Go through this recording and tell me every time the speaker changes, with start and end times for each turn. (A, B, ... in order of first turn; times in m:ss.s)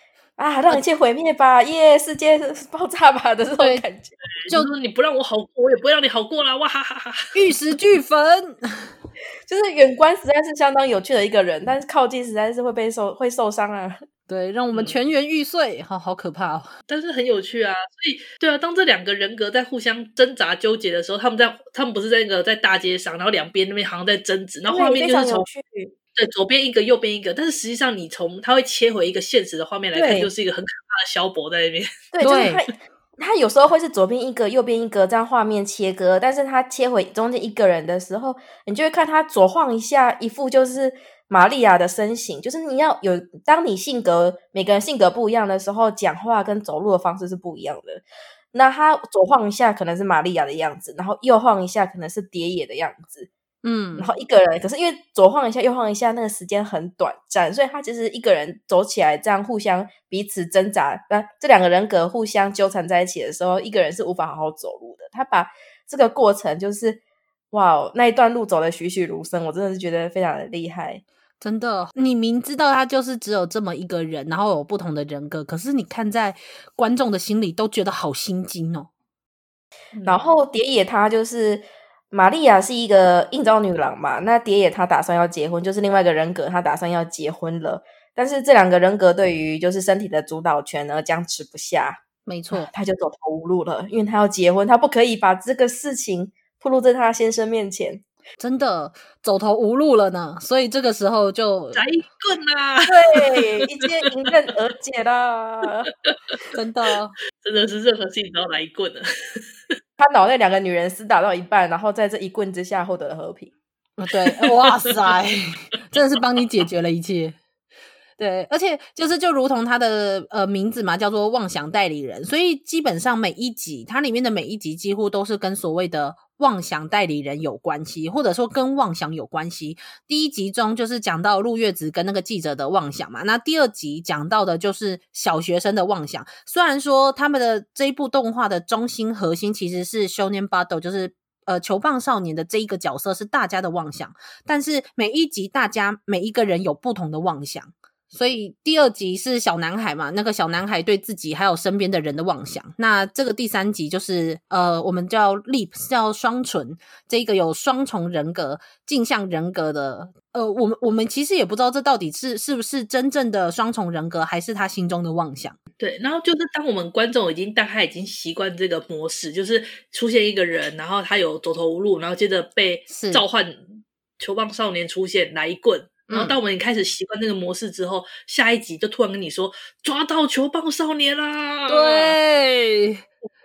0:00.4-0:04.2 A
0:03.6-0:03.8 B
0:04.4-0:07.3 C
0:07.3-0:08.9 B
0:09.5-0:14.0 A
0:14.3-0:16.8 B
0:14.7-0:15.0 C
0:16.9-0:25.5 C
0:24.7-0:25.9 A
0:26.1-0:31.9 C
0:29.9-0:30.3 A
0:32.1-0:53.3 A
0:32.2-0:32.6 B
0:53.6-0:54.1 B
0:54.0-1:07.0 A
1:07.5-1:11.0 A
1:11.4-1:18.9 B
1:19.9-1:20.3 C
1:20.0-1:32.0 A
1:32.3-1:32.7 B
1:32.5-1:38.0 A
1:38.4-1:41.8 B
1:41.7-1:43.8 C
1:42.9-1:45.9 A
1:46.1-1:46.4 C
1:46.5-1:47.2 B
1:47.4-1:49.4 C
1:50.0-1:53.5 A
1:54.0-1:57.4 B
1:54.2-1:55.1 C
1:58.2-2:45.6 B
2:45.8-3:02.2 C
2:52.9-2:53.2 B
2:56.1-2:56.4 B
3:01.7-3:03.0 B